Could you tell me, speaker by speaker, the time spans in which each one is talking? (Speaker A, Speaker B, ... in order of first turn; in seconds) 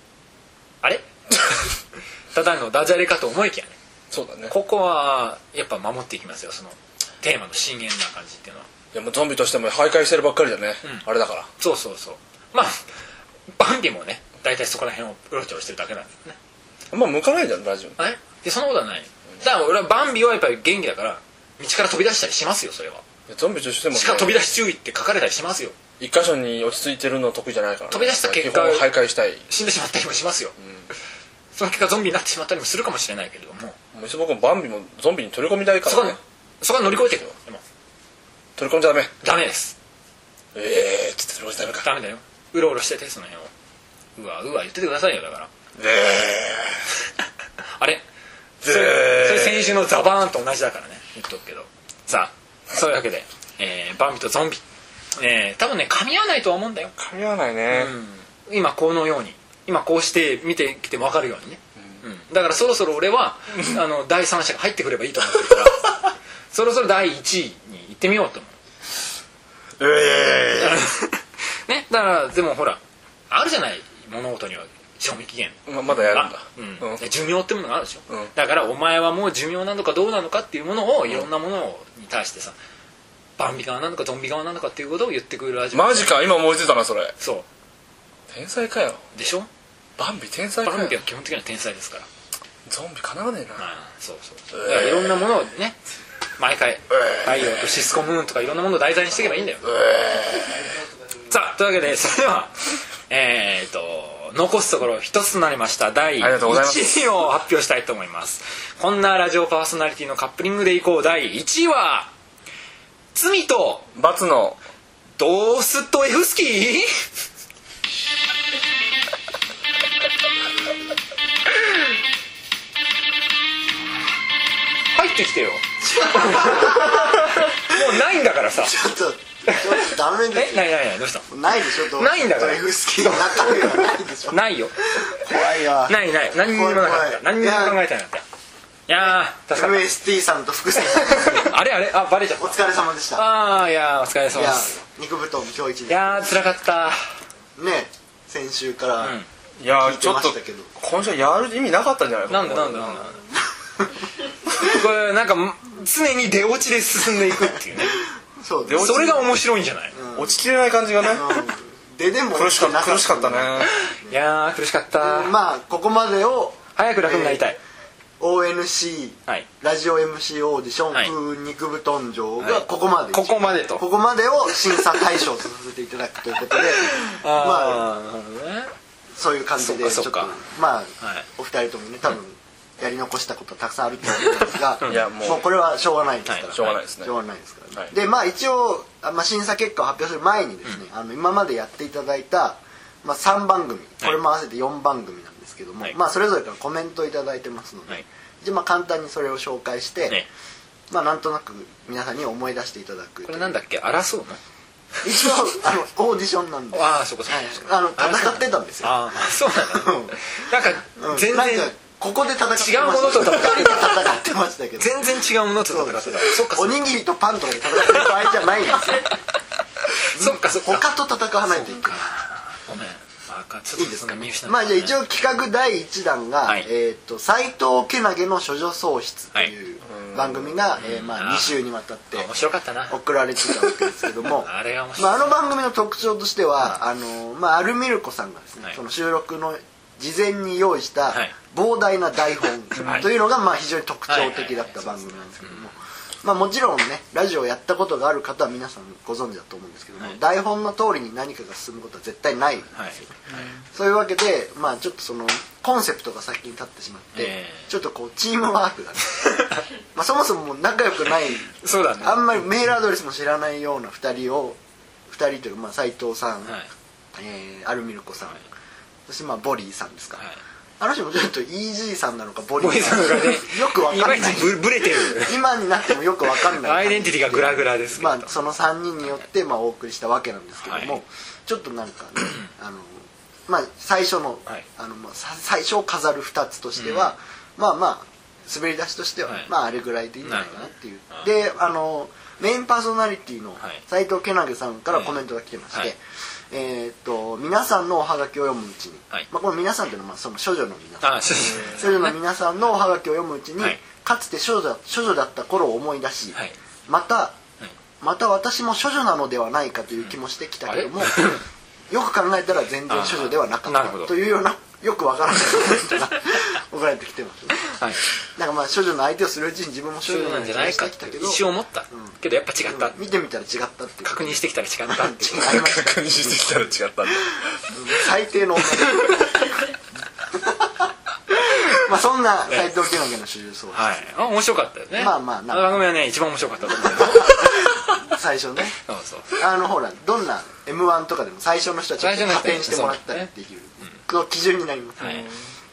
Speaker A: 0.8-1.7, 2.3-3.7, 4.5-8.7, 11.6-12.8, 13.6-16.4, 18.0-23.0, 23.9-25.7, 27.9-28.9, 29.5-30.5, 31.6-33.8, 35.9-37.6, 39.2-39.7, 41.6-43.5, 44.1-45.5, 47.8-48.0, 48.6-54.6, 55.1-56.9, 57.7-68.5, 70.6-82.5, 83.4-86.2, 87.2-87.5, 89.1-89.5, 90.6-92.0, 93.6-95.8, 96.4-99.7, 101.3-112.1, 113.1-113.9, 115.2-116.9, 124.9-128.8, 129.5-135.2, 135.9-138.2, 138.9-139.8, 140.8-144.8, 145.9-147.0, 149.0-149.2, 152.3-153.2, 154.5-158.0, 158.7-160.0, 163.7-165.3, 166.8-167.6, 172.4-173.8, 176.8-178.7, 179.6-180.3, 181.0-181.2, 184.2-185.1, 186.2-186.8, 203.3-204.4, 206.7-211.7, 212.6-214.1, 214.8-216.8, 217.7-218.3, 219.8-220.8, 221.5-225.0, 230.8-231.6, 232.1-235.4, 242.8-243.1, 244.1-245.7, 252.7-253.6, 257.1-257.7, 259.2-259.6, 261.6-262.3, 272.6-275.4, 276.4-278.5, 280.6-281.0, 286.8-287.1, 290.2-291.3, 294.9-295.2, 301.0-302.1, 310.7-311.4, 312.9-314.1, 317.7-318.0, 320.1-323.0, 324.0-325.6, 333.7-338.0, 338.8-339.4, 342.0-343.3, 345.0-345.3
Speaker B: 4.1-4.5, 8.9-11.5, 16.9-17.9, 23.3-24.5, 26.0-29.4, 33.9-36.2, 37.0-37.3, 38.6-39.1, 40.5-41.9, 45.8-46.8, 48.6-49.8, 57.0-57.9, 69.8-70.9, 75.7-77.0, 85.7-87.1, 88.3-89.0, 90.0-91.0, 92.7-93.7, 94.5-95.2, 97.0-97.4, 99.7-100.7, 106.2-107.1, 113.9-114.6, 149.6-153.1, 158.7-159.2, 160.1-161.4, 162.3-163.7, 184.9-185.4, 186.5-187.1, 229.9-230.5, 242.8-243.0, 325.4-328.0, 345.1-345.3
Speaker C: 125.8-127.5, 128.6-130.7, 131.3-137.8, 139.0-141.6, 142.4-143.2, 144.3-146.4, 147.6-149.2, 149.8-150.7, 157.9-159.3, 159.9-160.4, 161.0-164.1, 165.0-167.4, 168.2-177.9, 179.2-200.2, 200.9-203.6, 205.0-209.1, 209.6-210.2, 211.0-219.1, 220.1-222.1, 223.8-232.3, 232.9-252.8, 253.7-259.3, 259.9-264.6, 265.1-266.6, 267.1-268.4, 269.1-270.2, 270.8-296.0, 296.5-307.4, 308.0-326.7, 327.7-329.6, 330.3-330.8, 331.3-334.1, 335.0-335.8, 336.7-338.8, 339.3-345.3